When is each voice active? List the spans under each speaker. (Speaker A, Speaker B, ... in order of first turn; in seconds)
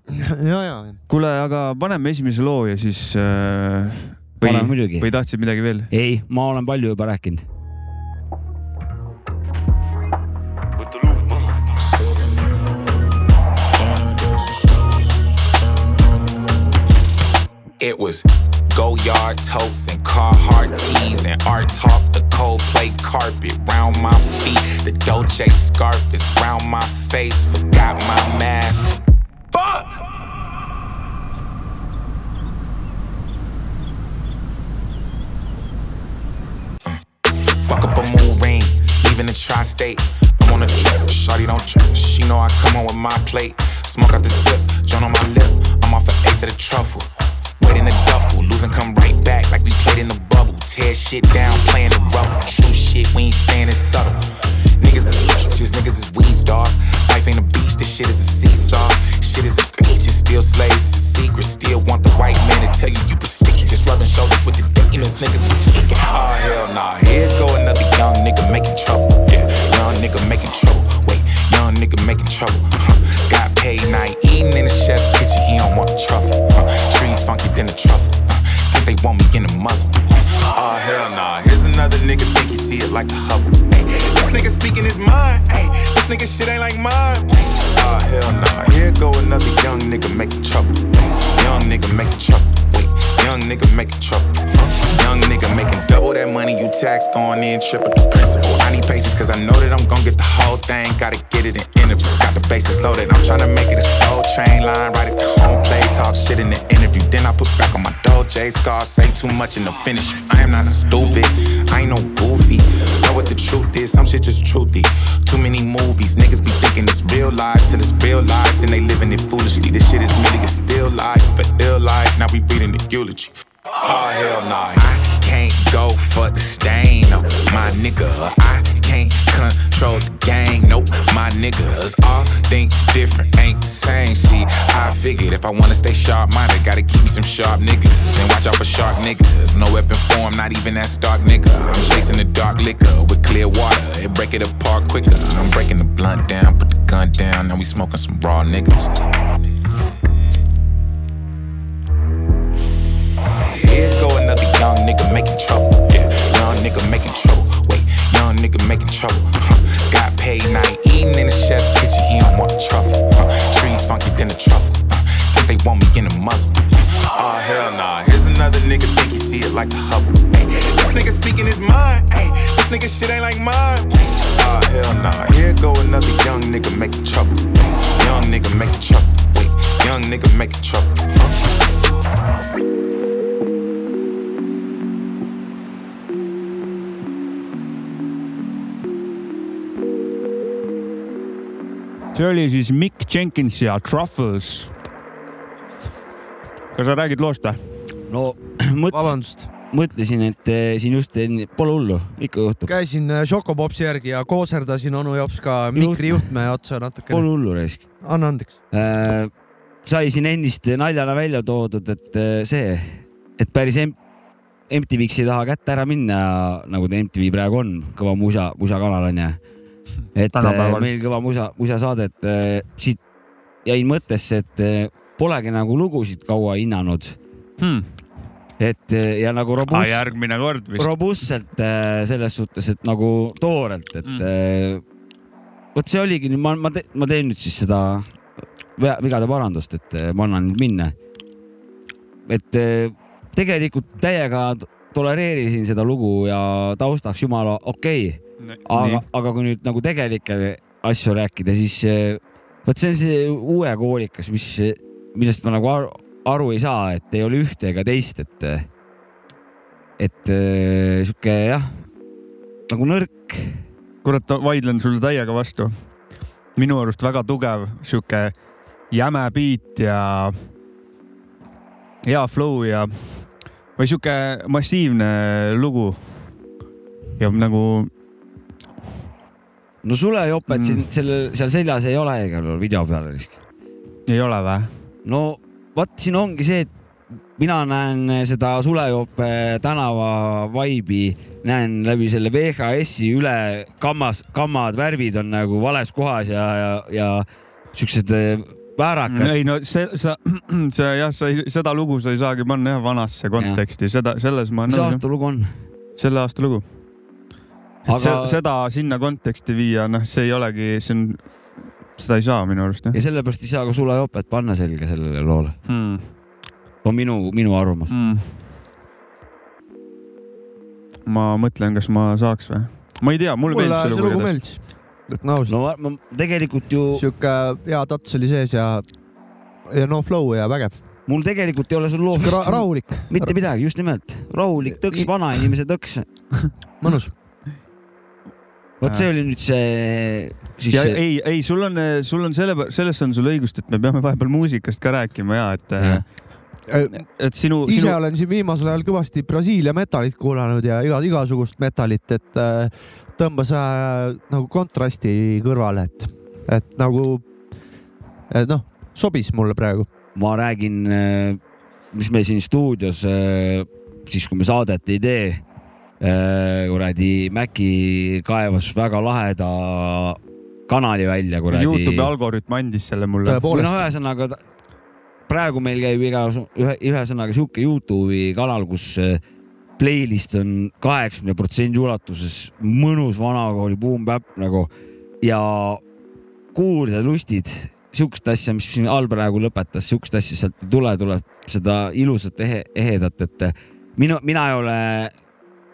Speaker A: 0.1-1.0, 198.9-199.5, 202.7-207.3, 208.0-208.6, 323.5-325.5, 326.9-328.9, 329.6-330.8, 332.1-333.3, 334.8-335.1, 336.8-337.1, 346.7-357.3, 358.3-359.9, 373.2-373.8
Speaker B: 1.1-5.9, 192.1-194.8, 196.7-197.9, 220.3-220.9, 227.6-227.9, 229.7-230.9, 248.4-249.0, 264.0-265.7, 266.5-268.4, 268.9-270.4, 272.0-276.3, 277.2-277.9, 280.5-280.8, 284.1-284.7, 299.1-305.0, 305.9-306.6, 307.9-313.0, 315.6-316.1, 317.9-318.3, 321.1-324.4, 338.8-339.1, 340.7-348.0, 371.5-373.4
Speaker C: 4.4-5.1, 5.9-7.4, 11.0-11.4, 198.1-202.7, 205.7-206.3, 207.1-208.0, 208.7-209.3, 209.8-214.0, 214.7-219.4, 220.1-223.0, 223.6-227.2, 228.6-230.1, 230.8-234.8, 235.7-238.2, 238.8-240.9, 242.3-258.7, 260.0-261.9, 262.7-263.6, 279.8-283.4, 285.0-286.7, 287.4-299.3, 304.6-305.5, 307.9-308.4, 312.9-315.6, 316.8-317.9, 325.5-327.0, 331.1-336.1, 338.8-341.0, 345.8-346.0, 360.1-361.4, 361.9-365.4, 366.0-372.1, 373.5-374.4, 375.3-379.2, 379.8-384.7, 385.2-385.8, 386.5-395.1
Speaker D: 11.8-13.0, 13.8-15.0, 17.8-28.8, 29.5-29.9, 37.6-54.2, 54.8-148.9, 153.5-181.4